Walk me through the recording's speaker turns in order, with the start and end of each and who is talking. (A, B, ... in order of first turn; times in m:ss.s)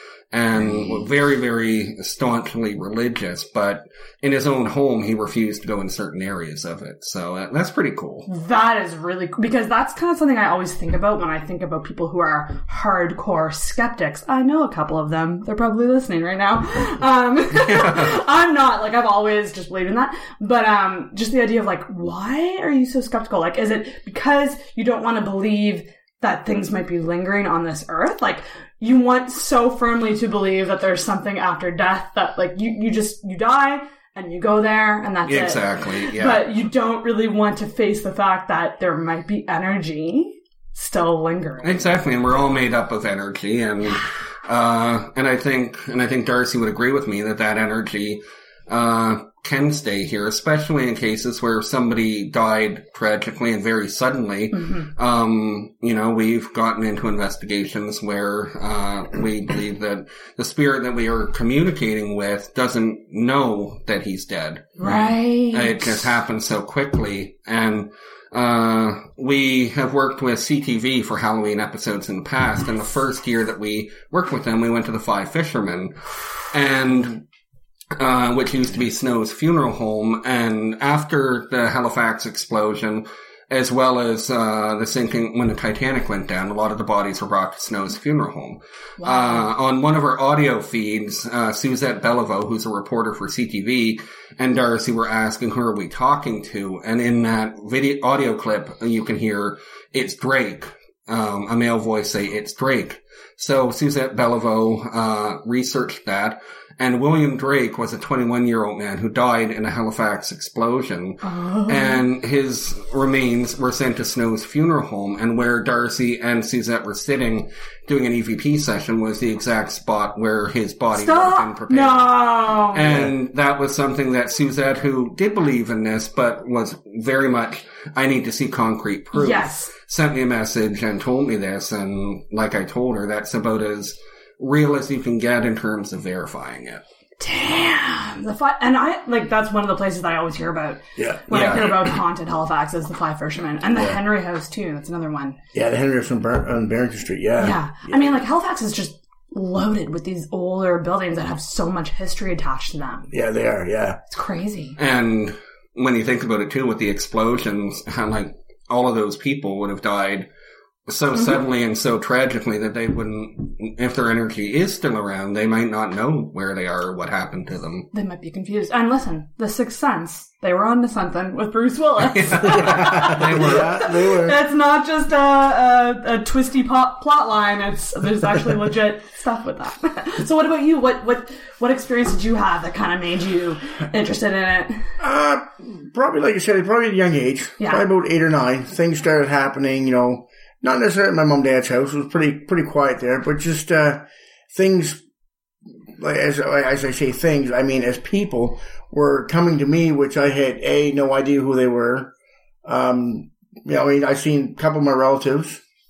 0:00.3-0:08.3 A
0:00.6-0:01.0 B
0:08.3-0:42.0 B
0:17.7-0:18.1 A
0:35.3-0:36.4 A
0:41.6-1:04.9 A
0:54.5-0:54.9 B
1:04.8-1:06.0 B
1:05.5-1:17.2 A
1:18.0-2:16.8 A
1:29.0-1:29.5 B
1:51.2-1:52.0 B
2:00.9-2:02.9 B
2:02.8-2:03.1 C
2:09.1-2:09.7 B
2:17.2-2:25.4 B
2:21.0-2:21.6 C
2:21.3-2:21.9 A
2:23.7-2:24.0 C
2:25.5-2:28.1 C
2:27.4-2:33.1 B
2:33.1-2:34.0 C
2:34.1-2:34.8 B
2:34.8-2:40.3 A
2:40.9-2:47.9 A
2:47.9-3:04.9 B
2:52.1-2:53.7 A
2:52.5-2:54.4 C
3:05.0-3:15.0 C
3:07.6-3:07.8 B
3:16.0-3:22.1 C
3:22.6-3:25.6 C